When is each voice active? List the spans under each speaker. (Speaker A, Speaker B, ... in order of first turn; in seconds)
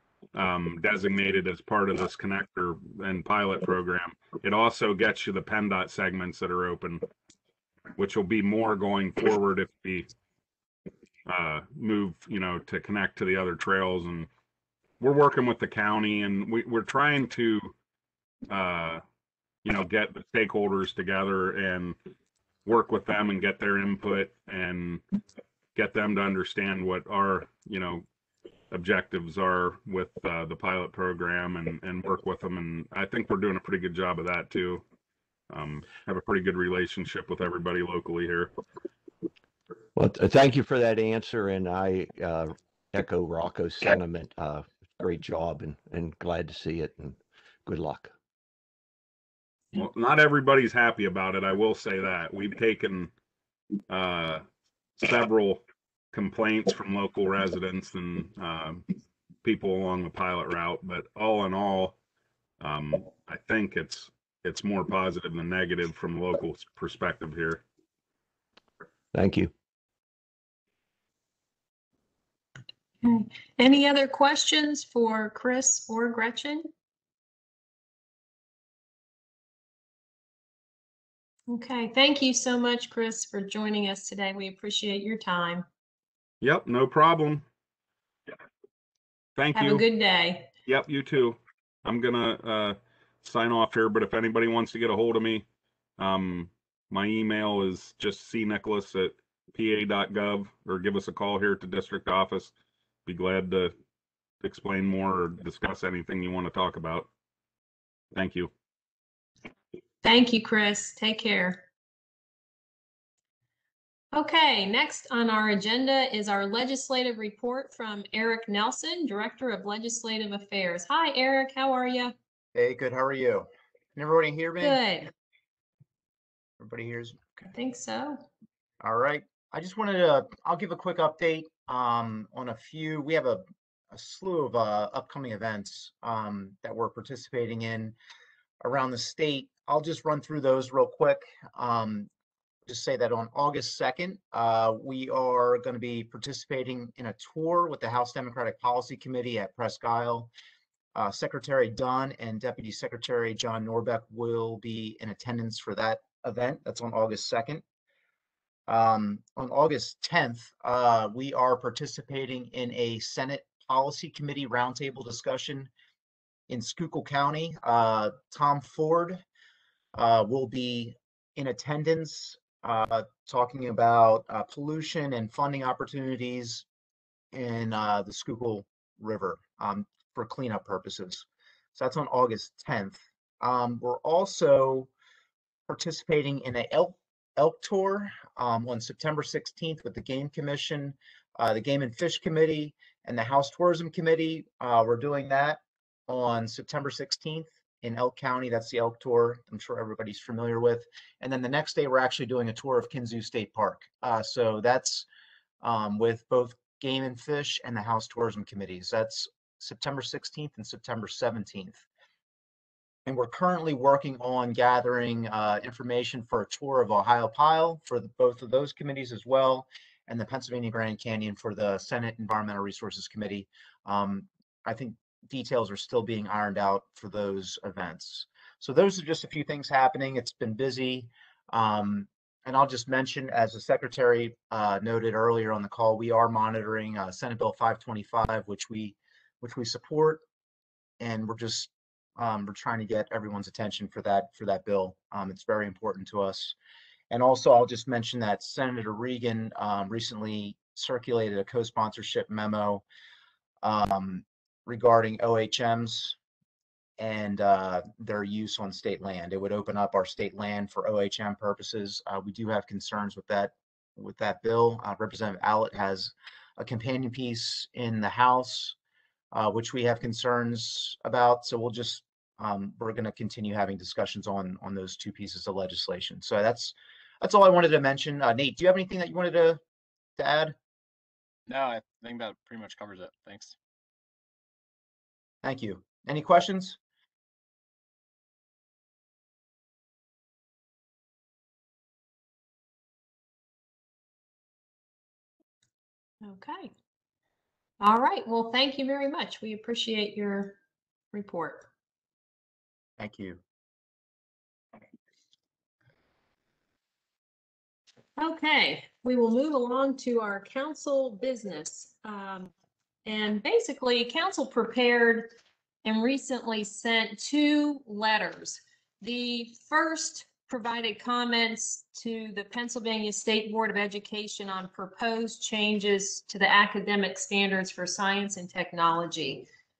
Speaker A: 0.3-7.0, 8.0-10.1, 11.2-14.3, 15.0-17.7, 18.5-19.0, 19.6-22.0, 22.6-25.0, 25.7-28.0, 28.7-34.8, 35.5-38.5, 49.7-53.1, 53.9-54.4, 55.0-58.9, 59.4-62.0, 62.6-67.6, 86.4-87.4, 89.4-89.8, 90.7-95.4, 96.0-102.5, 103.0-103.7, 104.4-107.1, 108.1-108.5
Speaker B: 40.0-48.1, 69.1-69.5
Speaker C: 73.0-76.7, 81.5-85.7, 89.5-90.5, 110.0-111.6, 114.1-122.1, 124.6-125.1, 127.5-128.2, 296.2-296.7, 297.8-300.6, 301.1-301.7, 308.2-312.5, 313.0-315.3, 315.8-329.4
Speaker D: 122.5-124.8, 126.6-127.2, 128.8-137.9, 138.6-142.1, 142.7-150.3, 150.9-157.6, 158.7-165.7, 166.5-169.2, 169.9-176.6, 177.3-184.9, 185.7-205.1, 205.6-211.8, 213.1-240.2, 241.0-246.5, 247.1-252.8, 253.6-256.1, 257.0-268.7, 269.3-279.6, 280.2-280.5, 285.4-286.8, 303.0-303.4
Speaker E: 281.5-283.5